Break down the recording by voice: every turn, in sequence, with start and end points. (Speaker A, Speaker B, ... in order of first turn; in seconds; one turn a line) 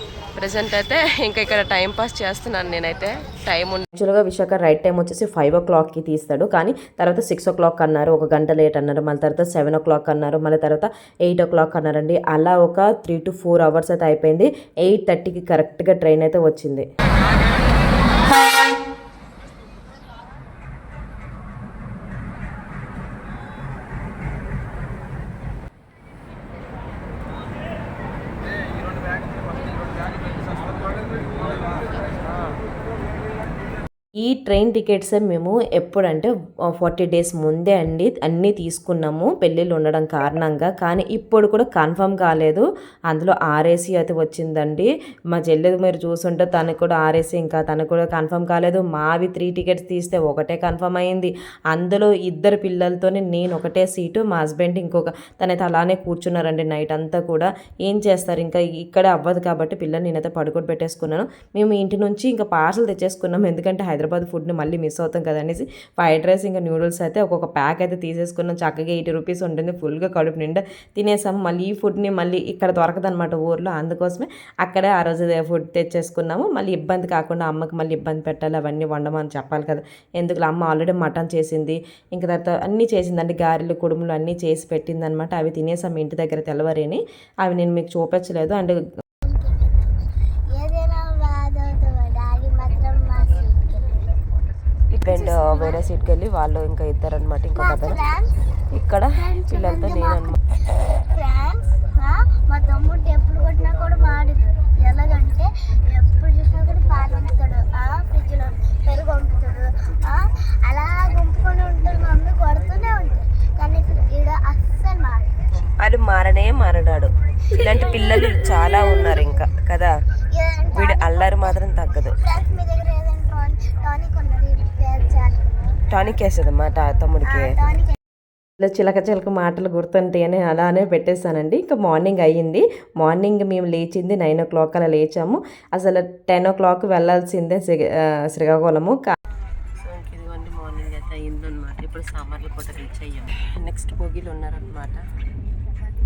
Speaker A: 0.3-3.9
Speaker B: 4.0-16.9
Speaker B: 34.2-88.8
Speaker C: 89.2-89.9
Speaker C: 90.5-94.2
Speaker A: 94.9-98.1
Speaker C: 95.1-95.8
Speaker C: 97.6-98.3
Speaker A: 98.7-100.4
Speaker C: 99.2-100.4
Speaker C: 100.9-115.3
Speaker A: 115.8-120.0
Speaker C: 117.5-119.3
Speaker C: 120.3-121.6
Speaker A: 120.7-122.2
Speaker C: 122.2-125.7
Speaker A: 125.9-127.8
Speaker C: 127.2-128.0
Speaker B: 128.6-139.1
Speaker A: 139.8-145.0